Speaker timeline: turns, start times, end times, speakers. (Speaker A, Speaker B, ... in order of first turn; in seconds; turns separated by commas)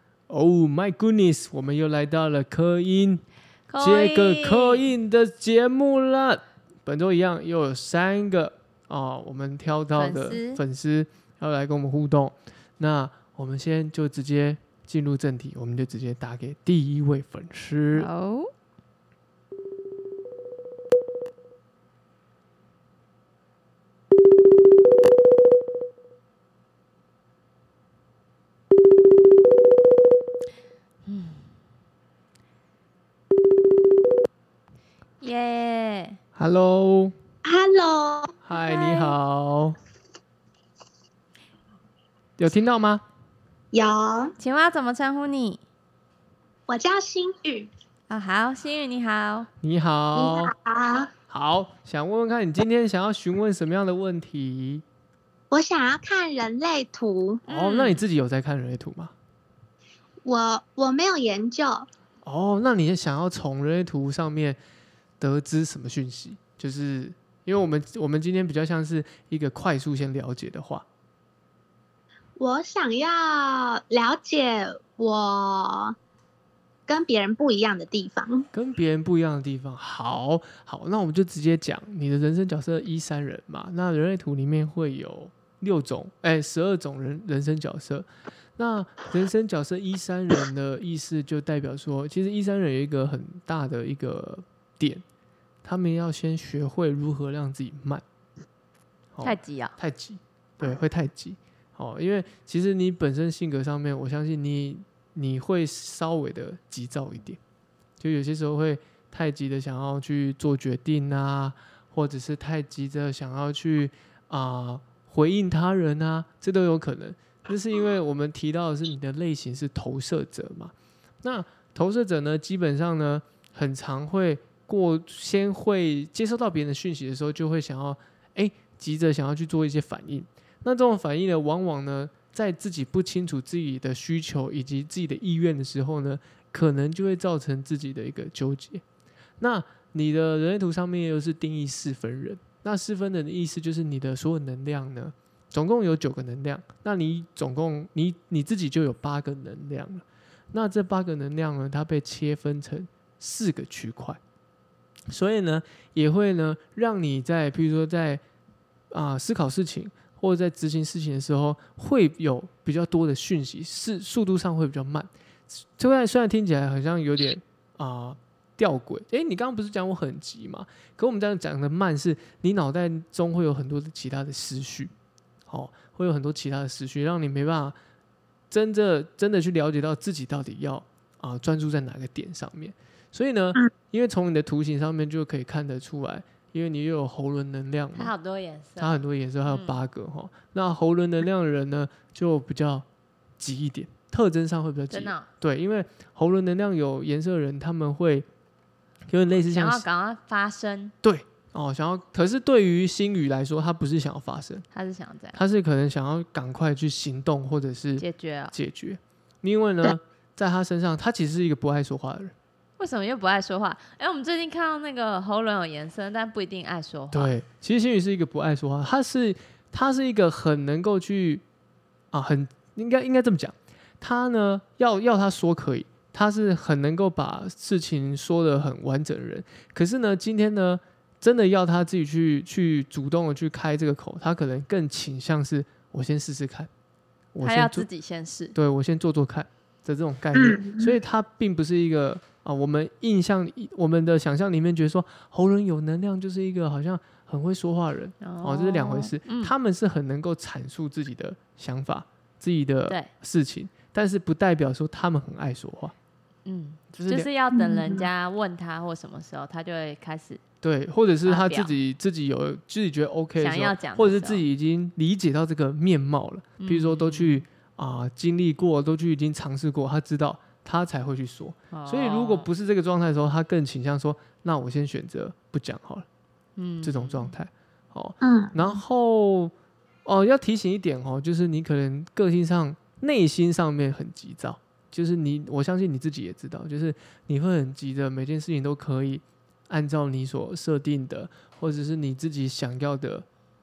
Speaker A: 0.3-3.2, Speaker B: 3.7-4.9, Speaker A: 3.8-18.1, Speaker B: 9.9-10.6, Speaker B: 17.9-18.5, Speaker B: 31.1-31.4, Speaker B: 35.2-36.2, Speaker A: 36.4-37.1, Speaker C: 37.4-38.4, Speaker A: 38.4-39.8, Speaker B: 38.5-39.1, Speaker A: 42.4-43.0, Speaker C: 43.7-44.3, Speaker B: 44.4-45.6, Speaker C: 46.7-47.7, Speaker B: 48.1-49.5, Speaker A: 49.6-50.5, Speaker C: 50.1-51.1, Speaker A: 51.3-54.8, Speaker C: 55.5-57.4, Speaker B: 57.5-58.0, Speaker A: 57.5-59.1, Speaker C: 60.2-61.9, Speaker A: 62.2-64.6, Speaker A: 65.2-70.8, Speaker C: 72.4-76.0, Speaker C: 76.9-78.5, Speaker A: 78.5-88.0, Speaker A: 88.6-95.0, Speaker A: 95.6-98.0, Speaker A: 99.1-107.4, Speaker B: 99.2-99.7, Speaker A: 108.0-138.8, Speaker A: 139.4-154.2, Speaker A: 155.1-158.2, Speaker A: 158.9-174.9, Speaker A: 175.5-177.8, Speaker A: 178.5-188.1, Speaker B: 187.9-189.8, Speaker A: 188.8-192.8, Speaker A: 193.4-198.2, Speaker B: 194.9-195.3, Speaker A: 199.1-199.8, Speaker B: 199.3-200.9, Speaker A: 201.0-204.6, Speaker B: 204.7-205.4, Speaker A: 205.3-212.3, Speaker B: 208.0-208.5, Speaker B: 212.8-217.3, Speaker A: 217.1-221.4, Speaker A: 222.1-236.7, Speaker A: 237.3-237.8, Speaker B: 237.4-238.5, Speaker A: 238.5-255.9, Speaker C: 240.3-240.9, Speaker B: 248.2-249.5, Speaker B: 256.4-260.4, Speaker A: 256.9-257.3, Speaker C: 257.5-258.1, Speaker A: 260.6-276.1, Speaker B: 261.2-261.7, Speaker B: 263.4-264.4, Speaker B: 266.6-267.4, Speaker B: 271.7-272.5, Speaker B: 276.6-277.3, Speaker A: 276.8-279.5, Speaker C: 278.2-278.8, Speaker A: 280.0-293.2